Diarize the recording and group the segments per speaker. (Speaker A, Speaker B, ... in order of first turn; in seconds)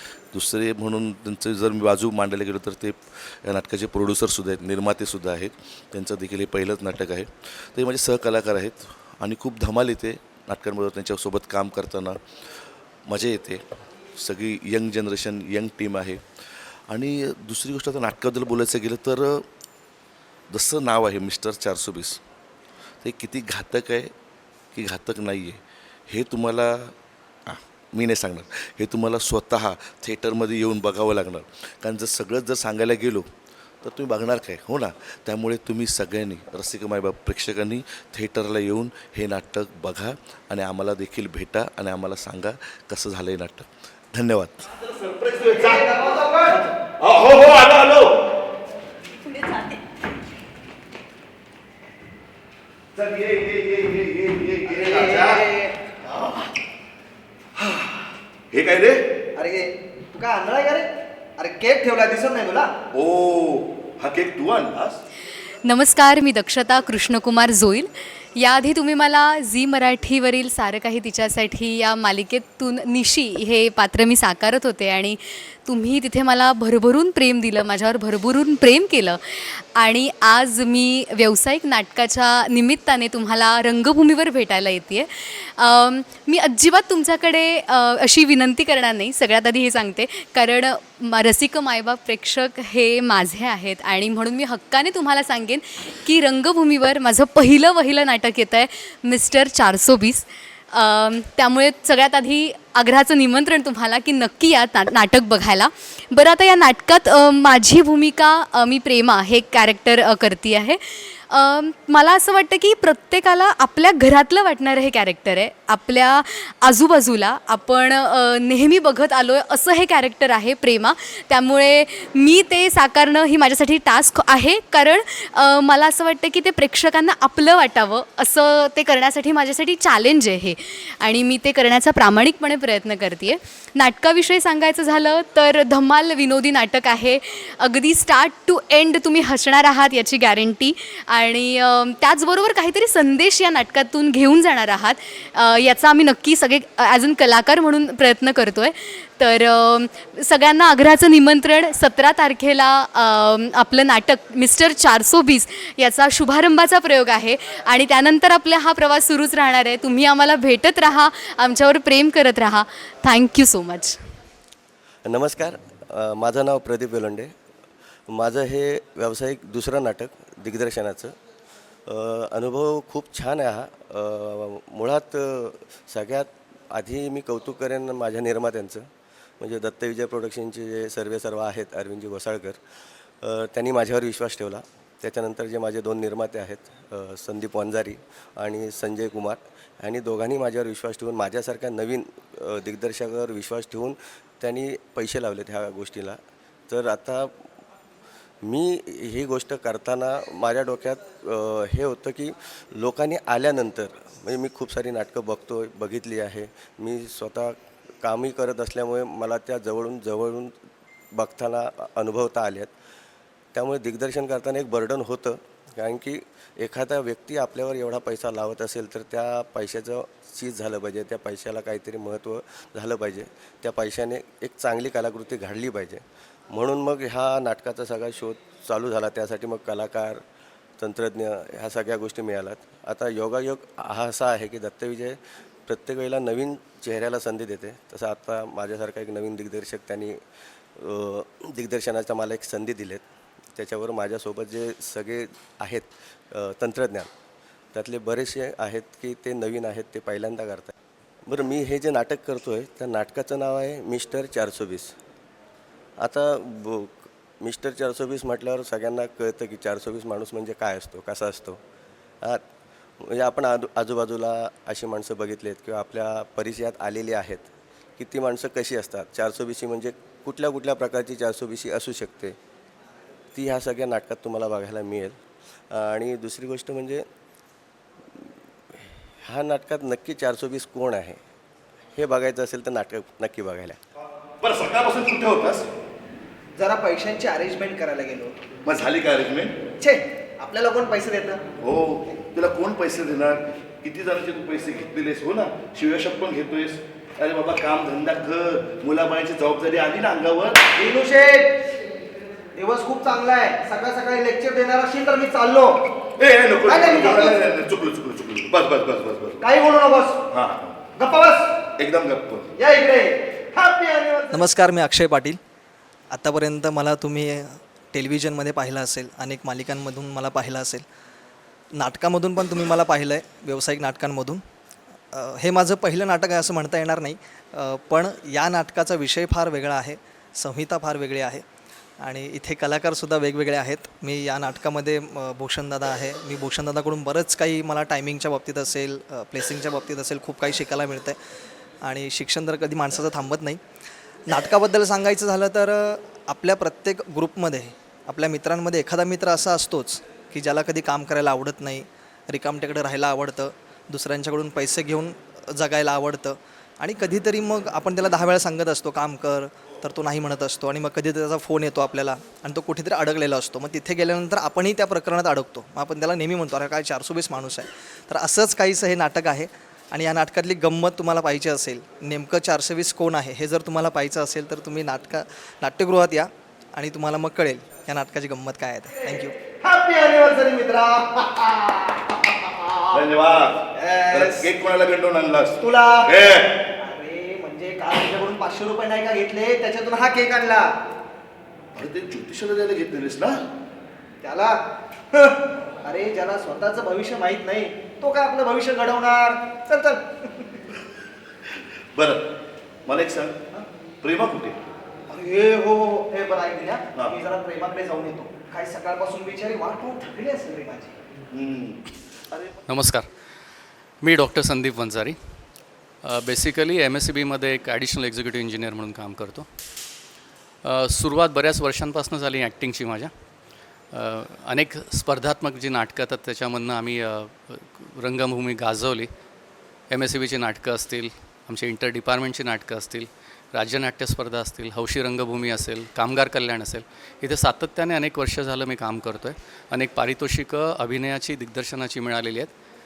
Speaker A: 0.3-12.2, 13.1-13.6, 14.2-19.4, 20.5-22.2, 23.0-24.1, 24.7-26.9, 27.5-33.2, 33.8-44.7
Speaker B: 44.8-48.1, 53.0-55.5, 58.5-59.0, 62.9-65.0, 284.4-285.7, 288.6-289.6, 291.6-300.6, 306.2-309.4, 310.4-310.8, 311.8-312.4, 382.9-385.6, 391.8-393.4, 401.9-402.2, 402.9-403.3, 404.0-404.5, 411.3-411.8
Speaker C: 45.5-46.7, 54.6-55.8, 59.3-62.7, 286.6-288.3, 289.8-291.4, 300.7-301.6, 302.6-305.8, 306.6-307.5, 309.4-310.2, 310.9-311.6, 312.5-314.4, 379.4-382.1, 382.7-383.1, 383.7-384.5, 385.6-390.7, 394.2-394.6, 395.1-400.4, 405.1-410.9
Speaker D: 65.6-164.0
Speaker E: 165.0-167.3, 168.1-171.1, 171.9-178.9, 179.4-182.6, 183.2-196.2, 196.7-197.3, 198.4-210.5, 211.1-212.7, 213.5-230.2, 230.8-240.2, 240.8-243.0, 243.5-247.1, 247.7-250.7, 251.2-254.9, 256.0-261.6, 263.0-272.4, 273.3-275.2, 275.7-277.0, 279.2-281.2, 281.9-283.8
Speaker F: 314.3-315.4, 316.1-320.8, 321.7-324.4, 325.1-331.4, 332.0-341.2, 341.8-343.6, 344.3-379.3
Speaker G: 412.7-413.1, 414.0-415.2, 416.0-419.5, 420.6-423.1, 423.9-429.1, 429.9-442.5